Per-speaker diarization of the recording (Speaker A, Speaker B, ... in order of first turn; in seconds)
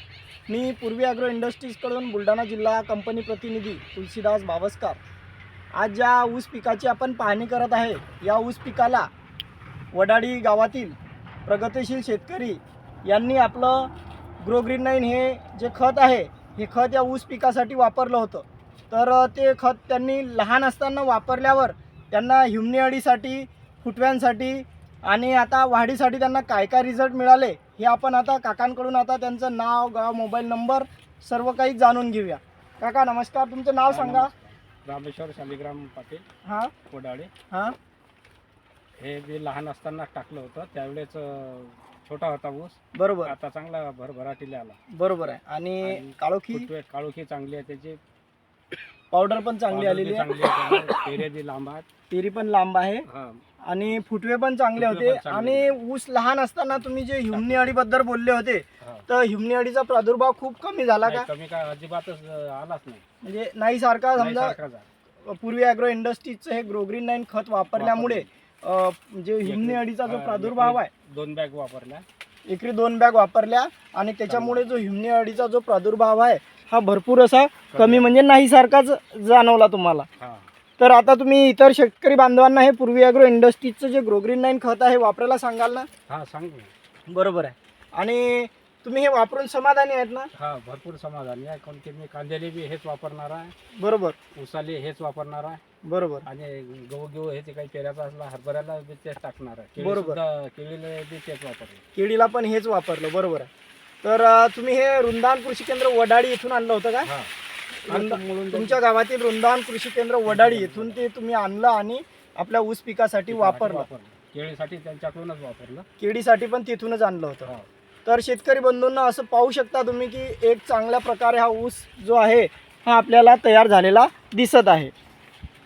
Speaker A: 0.5-5.0, 5.7-9.1, 9.9-13.9, 14.4-34.3, 36.4-36.7, 42.9-43.3, 44.9-46.7, 49.1-50.3, 52.1-53.0, 53.6-61.3, 63.2-64.6, 65.2-70.9, 72.5-80.1, 80.8-85.9, 87.1-90.3, 93.8-94.2, 95.8-96.2, 99.8-100.2, 101.9-103.5, 104.0-107.1, 107.9-113.8, 116.0-117.5, 118.0-124.9
Speaker B: 33.9-36.2, 36.9-37.3, 39.0-44.8, 45.8-48.0, 49.7-51.9, 53.0-53.4, 54.8-55.8, 57.3-57.6, 58.8-59.1, 61.0-63.0, 64.2-64.9, 67.7-68.3, 69.4-72.0, 74.3-74.7, 77.7-78.1, 80.2-80.5, 86.1-86.7, 90.3-93.5, 94.3-95.6, 96.2-101.8, 107.0-107.3, 107.9-108.8, 110.3-111.0, 113.3-115.8